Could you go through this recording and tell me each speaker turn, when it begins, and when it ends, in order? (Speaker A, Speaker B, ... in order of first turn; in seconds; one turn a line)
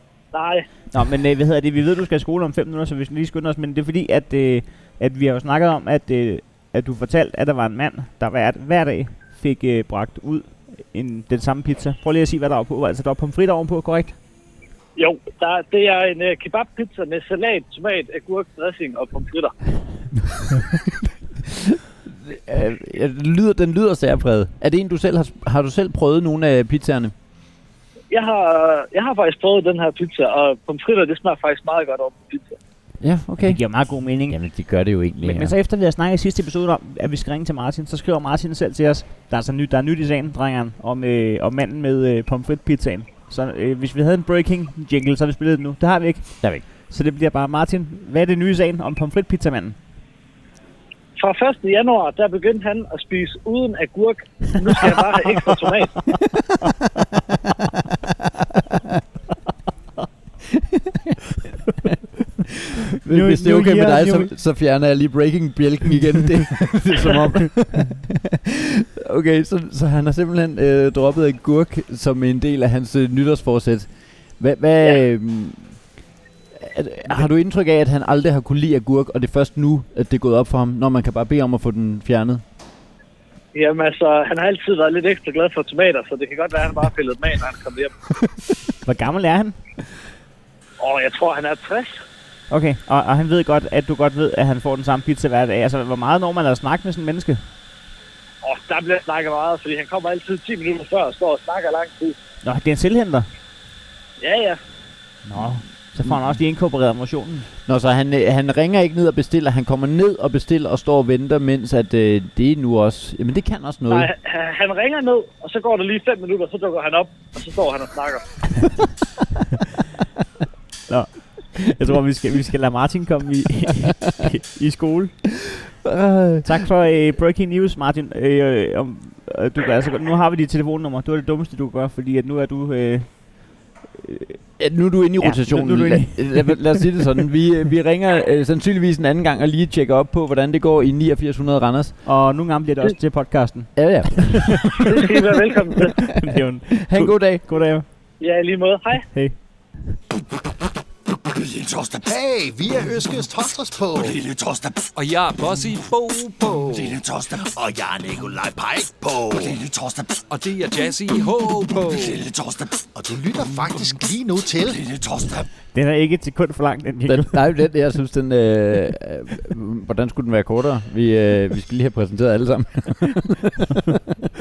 Speaker A: 0.3-0.7
Speaker B: 0.9-14.2
Speaker A: 15.0-19.6
Speaker C: 21.5-27.1
Speaker A: 28.1-32.6
Speaker C: 33.0-35.5
Speaker B: 33.4-34.6
Speaker B: 35.2-49.8
Speaker A: 51.2-56.0
Speaker C: 60.5-61.2
Speaker C: 62.9-75.9
Speaker B: 63.0-64.3
Speaker C: 76.5-82.4
Speaker A: 83.5-87.9
Speaker B: 88.8-89.6
Speaker A: 90.8-92.0
Speaker B: 92.5-97.4
Speaker A: 98.4-102.2
Speaker B: 102.4-103.3
Speaker A: 104.2-104.6
Speaker B: 105.2-107.5
Speaker C: 105.3-106.2
Speaker C: 107.7-114.1
Speaker A: 113.9-118.7
Speaker B: 120.9-125.5
Speaker C: 125.8-126.5
Speaker B: 126.4-134.4
Speaker C: 134.6-142.0
Speaker B: 135.2-137.2
Speaker B: 142.0-144.9
Speaker C: 143.8-145.1
Speaker A: 144.8-146.0
Speaker B: 146.1-147.8
Speaker C: 146.8-147.5
Speaker A: 148.2-149.1
Speaker B: 149.1-150.0
Speaker D: 151.3-154.8
Speaker E: 154.9-157.0
Speaker D: 156.6-160.2
Speaker E: 160.3-162.3
Speaker D: 162.2-165.5
Speaker B: 165.7-167.5
Speaker C: 167.1-173.8